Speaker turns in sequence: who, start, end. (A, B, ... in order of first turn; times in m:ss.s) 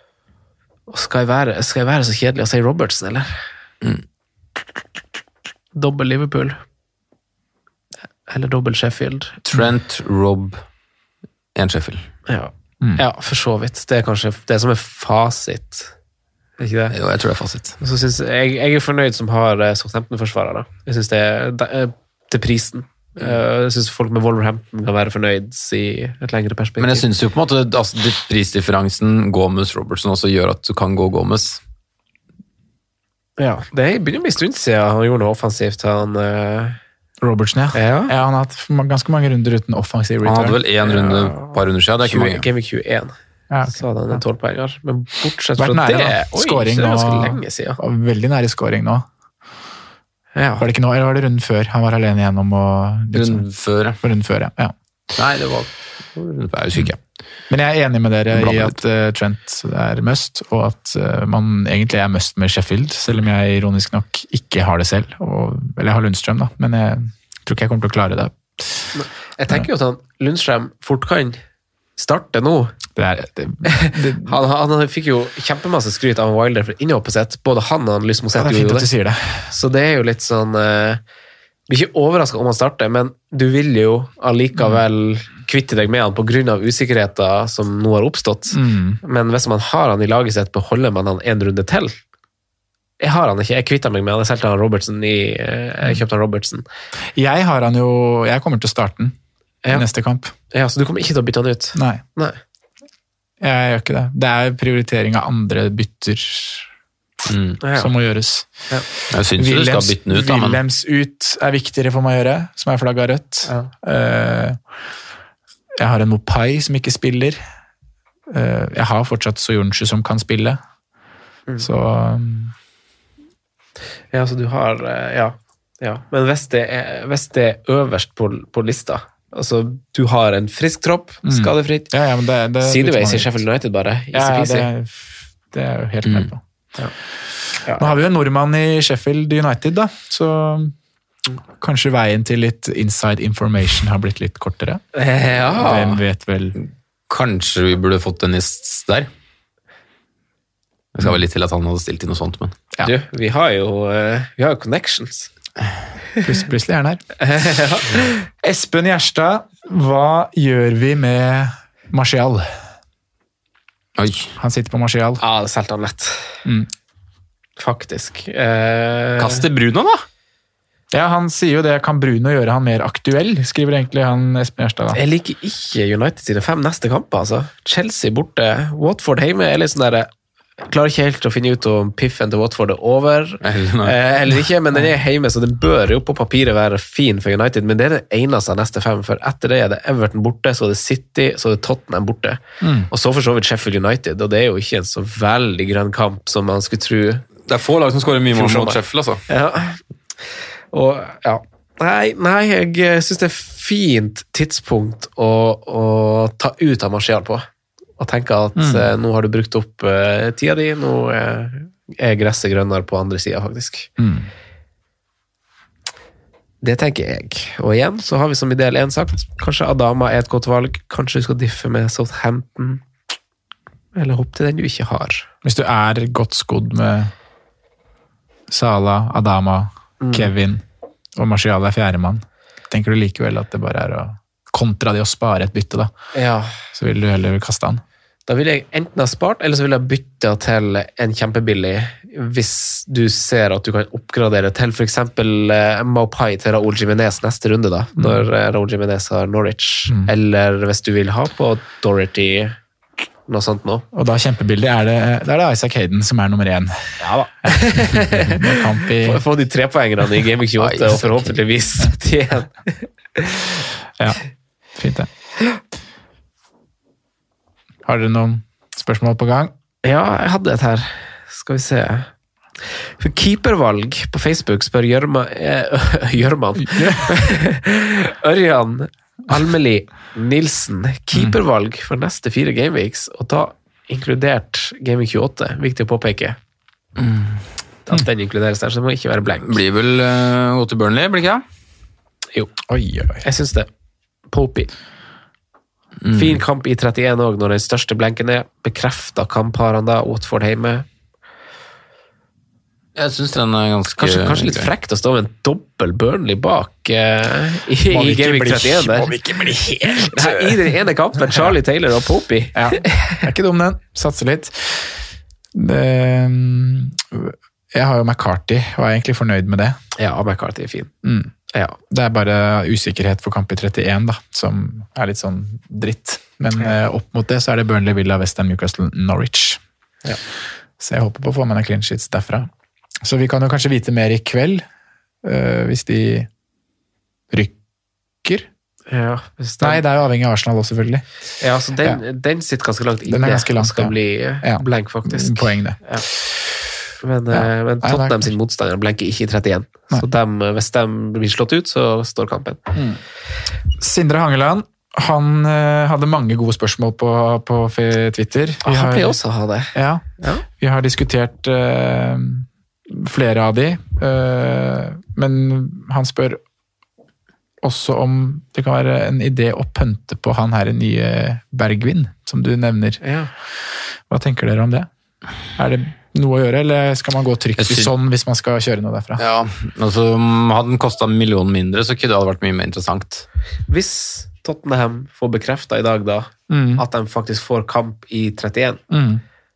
0:00.9-0:03.4 A
0:05.7-0:06.6 A
0:08.3-0:09.4 A
0:09.4-0:10.6 B
0:11.6-0:12.0 B
0:12.3-0:15.9 A
0:16.6-0:16.9 A
0:16.9-0:17.8 B
0:17.8-0:27.0 A
0:26.8-0:31.6 B
0:33.4-0:36.8 A
0:37.2-0:40.6 C
0:37.7-0:38.1 A
0:40.2-0:42.4 B
0:40.8-0:43.1 A
0:43.5-0:44.2 C
0:43.7-0:47.8 A
0:45.6-0:49.0 C
0:50.3-0:50.7 A
0:50.6-0:53.4 C
0:53.1-0:54.0 B
0:54.0-0:54.7 C
0:55.1-0:57.0 B
0:57.5-1:08.9 C
0:58.3-0:58.8 B
1:08.9-1:11.4 A
1:12.0-1:12.8 A
1:13.0-1:14.4 C
1:13.6-1:18.9 A
1:18.4-1:19.5 C
1:19.5-1:21.0 A
1:21.7-1:31.9 A
1:24.6-1:24.8 C
1:28.5-1:29.0 C
1:33.0-1:36.6 A
1:37.2-1:39.1 C
1:39.7-1:40.3 C
1:40.5-1:42.4 A
1:41.7-1:42.0 C
1:43.4-1:46.7 C
1:47.3-1:47.6 B
1:47.6-1:47.9 A
1:47.7-1:48.5 C
1:49.1-1:50.6 B
1:49.3-1:54.6 C
1:55.8-1:57.4 C
1:58.3-2:00.6 C
2:01.6-2:02.5 C
2:04.1-2:11.9 A
2:11.2-2:13.4 C
2:12.6-2:14.7 A
2:14.1-2:16.4 C
2:17.6-2:17.9 A
2:17.7-2:20.7 C
2:21.6-2:24.8 C
2:24.9-2:26.0 A
2:25.4-2:26.6 C
2:27.1-2:29.1 B
2:30.9-2:32.5 B
2:32.8-2:35.3 A
2:36.2-2:37.0 C
2:37.2-2:38.2 A
2:38.4-2:42.5 C
2:44.0-2:44.3 B
2:44.4-2:45.2 C
2:45.2-2:46.3 A
2:47.6-2:49.4 A
2:49.2-2:50.0 B
2:50.9-2:55.0 C
2:54.9-3:00.1 A
3:00.6-3:17.2 A
3:03.4-3:04.0 B
3:12.6-3:12.9 C
3:17.5-3:19.2 B
3:18.3-3:19.8 A
3:20.7-3:27.4 A
3:28.0-3:33.9 A
3:28.6-3:28.9 C
3:34.0-3:34.3 C
3:36.6-3:42.8 A
3:43.9-3:45.2 A
3:45.4-3:47.1 C
3:48.5-3:50.6 C
3:50.0-3:50.3 A
3:51.2-3:55.9 C
3:56.1-3:56.6 A
3:56.7-3:57.8 C
3:58.2-4:12.6 A
4:08.0-4:08.3 C
4:09.9-4:10.1 C
4:13.3-4:13.8 A
4:13.9-4:19.2 C
4:17.0-4:23.6 A
4:20.6-4:21.4 B
4:24.8-4:25.1 C
4:27.8-4:29.5 C
4:29.8-4:32.1 A
4:32.6-4:46.4 A
4:36.6-4:37.1 C
4:47.0-4:47.4 B
4:47.8-4:49.6 A
4:49.4-4:51.4 B
4:52.7-4:53.2 C
4:53.2-4:53.7 A
4:54.3-4:54.7 A
4:56.0-4:56.4 B
4:56.1-5:00.8 A
5:03.0-5:04.7 B
5:04.0-5:09.2 A
5:07.9-5:10.7 C
5:10.0-5:13.2 A
5:12.5-5:15.0 C
5:15.5-5:19.8 C
5:20.0-5:20.9 A
5:21.0-5:21.3 C
5:21.5-5:21.8 A
5:21.9-5:29.6 C
5:30.8-5:32.5 C
5:33.0-5:34.6 C
5:35.2-5:36.3 C
5:38.9-5:39.8 A
5:39.6-5:41.0 C
5:41.4-5:46.0 A
5:43.1-5:45.9 C
5:47.0-5:52.6 A
5:47.3-5:48.3 C
5:52.7-5:53.0 C
5:53.8-5:59.2 C
5:58.6-6:00.4 A
5:59.7-6:06.4 C
6:07.6-6:13.0 C
6:13.0-6:13.3 A
6:14.1-6:14.9 C
6:15.6-6:19.2 C
6:17.6-6:17.9 B
6:19.2-6:23.2 B
6:23.7-6:28.8 A
6:26.5-6:26.8 C
6:28.9-6:29.2 C